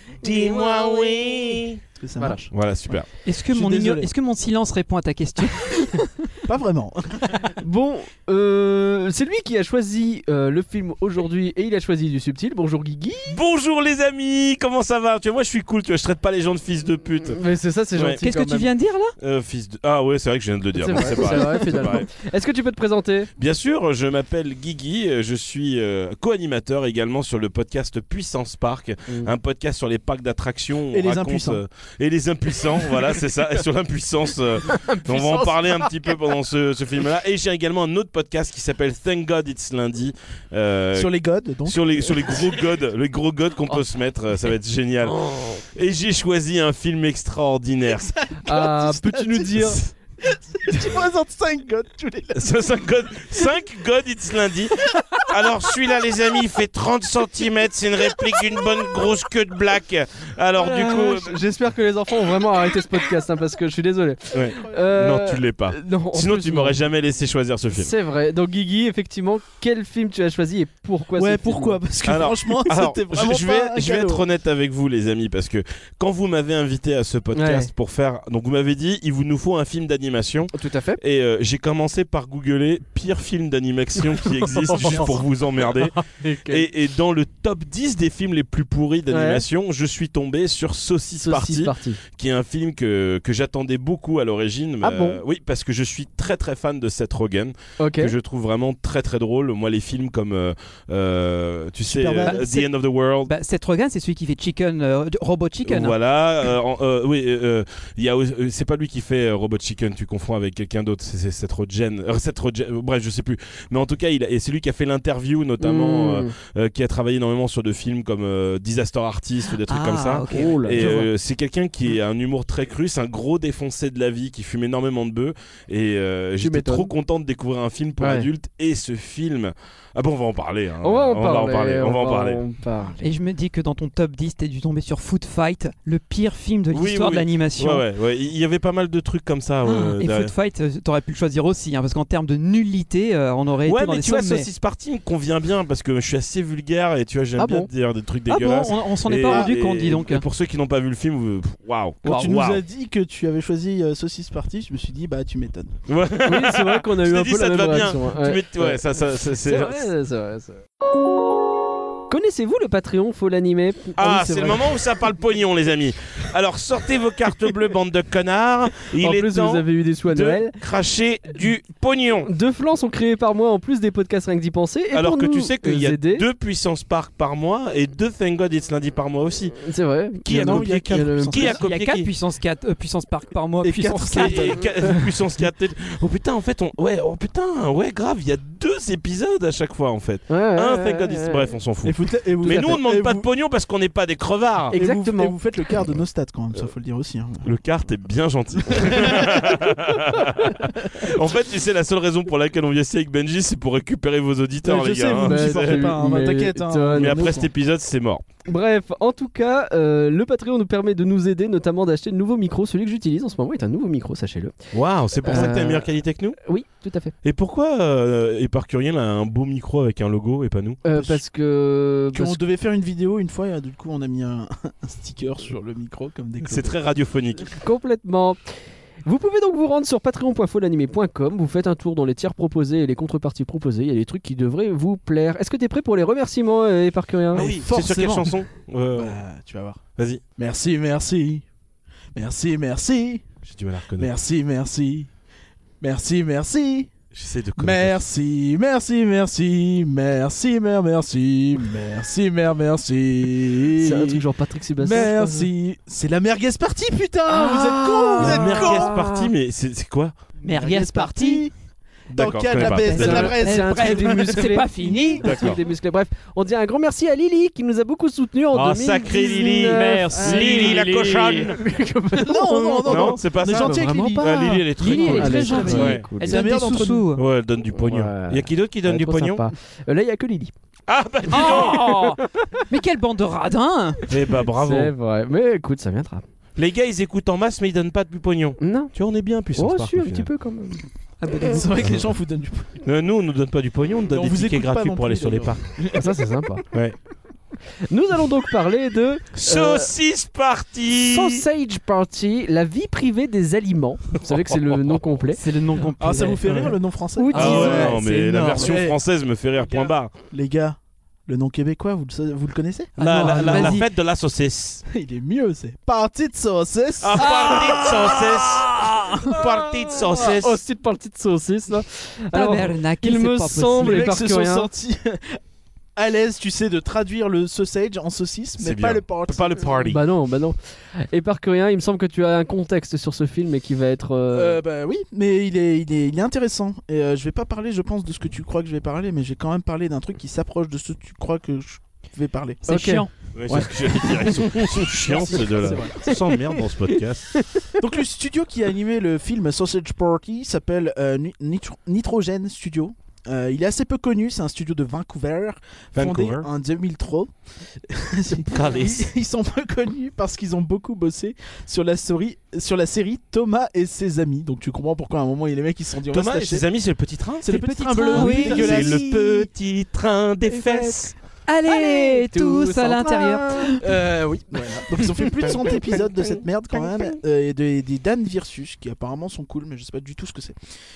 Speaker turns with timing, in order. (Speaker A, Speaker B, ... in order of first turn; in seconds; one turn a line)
Speaker A: 0.2-1.8
Speaker B: 1.9-2.5
Speaker A: 2.5-3.1
Speaker C: 3.2-6.3
Speaker B: 3.5-4.1
Speaker B: 6.4-7.4
Speaker D: 7.4-13.4
Speaker A: 13.3-17.4
Speaker D: 17.3-18.7
Speaker A: 17.9-18.2
Speaker C: 18.2-19.1
Speaker A: 19.2-22.1
Speaker D: 20.8-23.3
Speaker A: 23.4-41.1
Speaker B: 30.9-31.6
Speaker D: 34.7-36.1
Speaker B: 40.9-42.7
Speaker A: 41.6-48.1
Speaker B: 47.8-52.6
Speaker D: 48.5-49.8
Speaker A: 52.4-61.4
Speaker D: 60.6-66.8
Speaker A: 64.3-67.9
Speaker D: 67.7-71.8
Speaker B: 71.1-74.2
Speaker A: 72.0-103.3
Speaker D: 77.3-77.7
Speaker D: 80.5-81.0
Speaker D: 84.6-85.2
Speaker D: 85.9-86.7
Speaker D: 89.1-89.4
Speaker D: 91.2-92.0
Speaker D: 94.8-95.2
Speaker D: 97.8-98.1
Speaker B: 101.8-102.5
Speaker C: 102.2-102.7
Speaker C: 103.2-106.0
Speaker A: 105.7-132.4
Speaker D: 115.6-116.3
Speaker C: 119.5-121.0
Speaker D: 120.3-121.1
Speaker D: 126.4-126.9
Speaker D: 128.0-128.3
Speaker D: 130.8-133.1
Speaker C: 133.0-137.8
Speaker A: 136.7-140.3
Speaker C: 139.6-144.5
Speaker A: 143.6-152.6
Speaker C: 147.4-147.7
Speaker C: 148.3-150.2
Speaker B: 149.2-149.5
Speaker B: 152.0-155.8
Speaker A: 155.9-159.9
Speaker D: 156.2-160.6
Speaker D: 162.1-164.6
Speaker A: 164.0-172.3
Speaker D: 169.0-170.5
Speaker D: 172.3-176.2
Speaker A: 174.9-179.6
Speaker D: 179.6-181.6
Speaker A: 180.2-182.1
Speaker B: 180.3-181.6
Speaker C: 181.6-184.6
Speaker B: 183.6-184.6
Speaker A: 183.8-194.8
Speaker D: 190.3-191.4
Speaker B: 191.8-193.2
Speaker D: 194.7-195.3
Speaker B: 194.7-197.5
Speaker A: 197.4-206.1
Speaker B: 198.6-199.9
Speaker B: 204.6-207.5
Speaker D: 205.2-207.4
Speaker A: 206.9-208.2
Speaker D: 208.4-214.5
Speaker A: 214.7-216.4
Speaker D: 215.2-215.9
Speaker D: 216.4-217.1
Speaker A: 217.2-220.8
Speaker D: 220.8-222.4
Speaker B: 220.9-221.2
Speaker B: 222.1-226.8
Speaker A: 226.4-227.5
Speaker D: 227.5-228.4
Speaker D: 229.0-237.5
Speaker A: 237.3-239.1
Speaker B: 237.3-239.8
Speaker A: 240.0-240.2
Speaker B: 240.4-241.4
Speaker B: 242.1-243.3
Speaker A: 243.4-244.1
Speaker B: 243.9-245.1
Speaker B: 245.8-246.9
Speaker A: 247.1-248.0
Speaker B: 247.6-259.0
Speaker D: 253.7-255.5
Speaker C: 257.6-259.3
Speaker A: 258.1-260.1
Speaker C: 260.4-261.4
Speaker B: 260.4-261.5
Speaker B: 262.1-264.9
Speaker A: 262.1-263.3
Speaker C: 262.5-265.6
Speaker D: 263.0-273.7
Speaker A: 265.2-265.6
Speaker A: 268.5-271.6
Speaker B: 270.1-271.0
Speaker C: 270.6-270.9
Speaker B: 272.1-277.1
Speaker A: 272.8-276.1
Speaker C: 274.8-277.2
Speaker D: 275.1-276.4
Speaker A: 277.1-279.4
Speaker D: 277.8-280.5
Speaker A: 280.9-282.1
Speaker C: 281.3-284.0
Speaker D: 282.2-282.6
Speaker A: 284.1-284.9
Speaker D: 284.6-286.2
Speaker A: 286.6-290.3
Speaker D: 288.6-288.9
Speaker D: 289.5-290.8
Speaker C: 291.2-291.7
Speaker B: 291.4-292.8
Speaker A: 291.8-292.1
Speaker A: 292.8-295.6
Speaker B: 294.1-296.6
Speaker D: 295.9-296.6
Speaker A: 296.7-297.0
Speaker D: 297.9-299.9
Speaker A: 299.3-301.4
Speaker D: 300.9-305.4
Speaker A: 304.3-304.9
Speaker C: 305.3-306.7
Speaker B: 306.0-309.0
Speaker D: 307.1-308.0
Speaker C: 307.2-308.8
Speaker A: 307.3-310.1
Speaker B: 309.6-313.8
Speaker C: 313.0-313.9
Speaker A: 313.0-314.8
Speaker B: 314.9-319.1
Speaker A: 317.0-320.6
Speaker D: 319.4-324.7
Speaker C: 322.3-324.1
Speaker B: 323.8-325.4
Speaker B: 325.9-329.7
Speaker A: 328.6-330.0
Speaker D: 329.8-334.6
Speaker B: 334.3-342.6
Speaker C: 342.6-343.1
Speaker D: 342.7-344.4
Speaker A: 343.3-347.4
Speaker B: 343.5-346.2
Speaker D: 345.3-347.7
Speaker B: 347.8-357.3
Speaker A: 355.9-356.4
Speaker B: 357.8-366.6
Speaker A: 358.4-359.1
Speaker A: 366.1-371.1
Speaker B: 367.4-369.0
Speaker C: 367.5-369.2
Speaker D: 370.5-371.0
Speaker C: 371.5-373.8
Speaker D: 371.6-373.8
Speaker B: 373.8-380.6
Speaker D: 375.4-376.0